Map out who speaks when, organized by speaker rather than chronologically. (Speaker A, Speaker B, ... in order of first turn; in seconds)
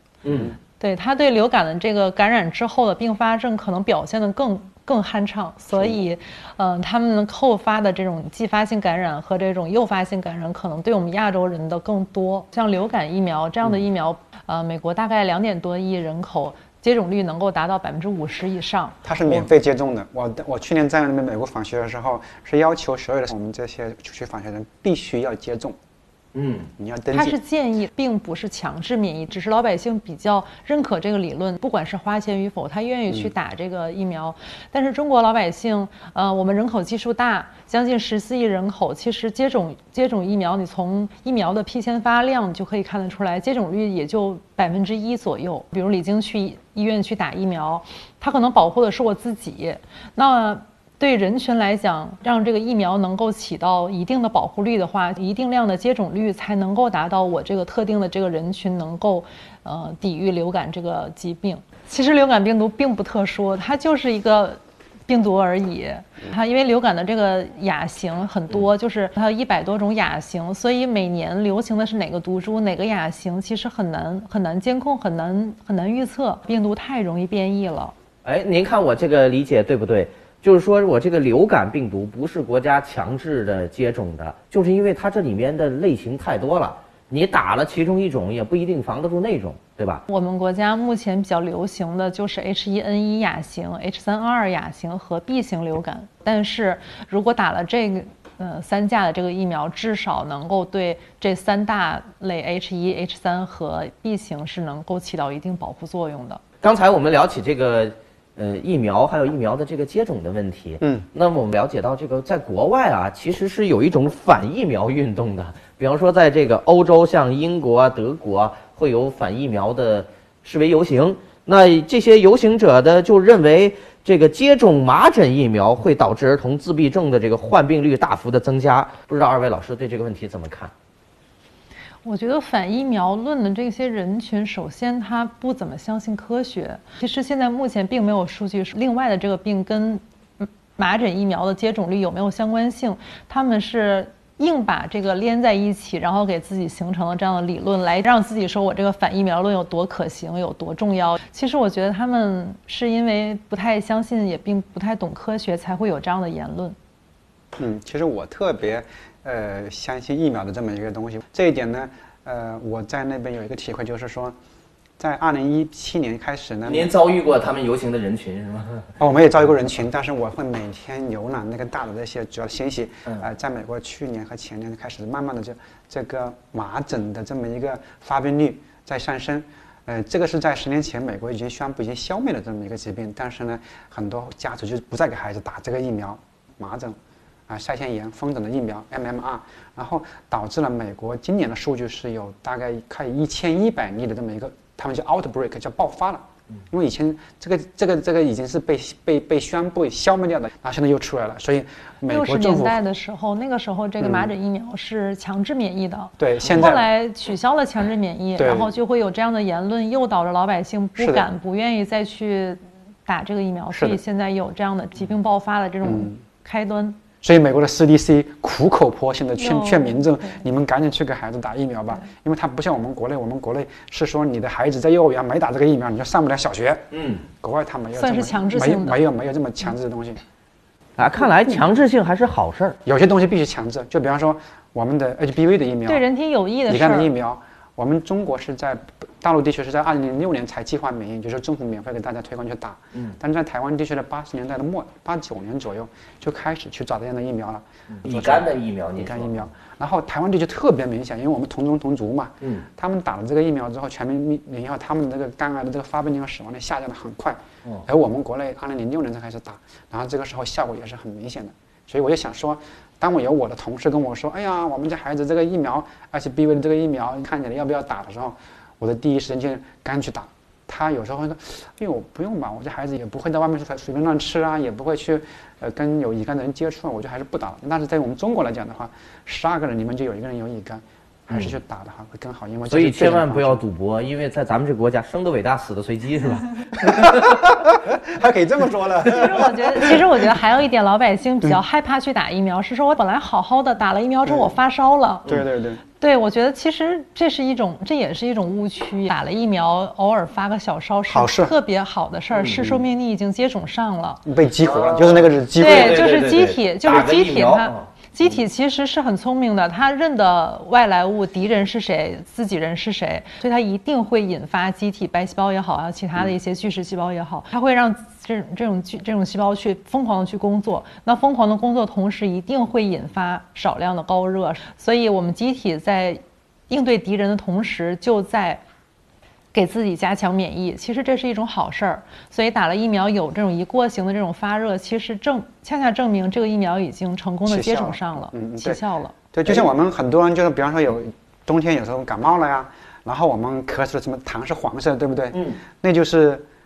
Speaker A: 0.2-0.6, 26.3-26.7, 78.2-90.0, 106.6-130.7, 166.7-168.9, 226.9-227.3, 231.0-232.8, 247.9-249.5, 252.4-252.7, 282.7-287.4, 302.3-302.8, 304.6-307.9, 345.3-345.6
Speaker B: 0.8-19.5, 27.1-77.9, 90.1-106.4, 132.0-156.8, 202.1-217.0, 219.4-220.4, 228.0-229.0, 235.9-237.1, 289.1-295.3, 296.0-304.2, 305.6-328.6, 329.5-339.1
Speaker C: 19.1-25.8, 26.8-27.4, 157.6-164.3, 165.0-166.9, 169.0-202.8, 204.0-204.3, 206.2-206.8, 208.4-208.7, 211.0-211.3, 213.7-214.0, 215.8-216.2, 217.2-230.2, 232.9-236.0, 236.7-283.6, 286.8-290.1, 294.3-294.5, 295.3-295.8, 301.1-301.6, 304.3-306.3, 337.5-338.8, 339.3-346.4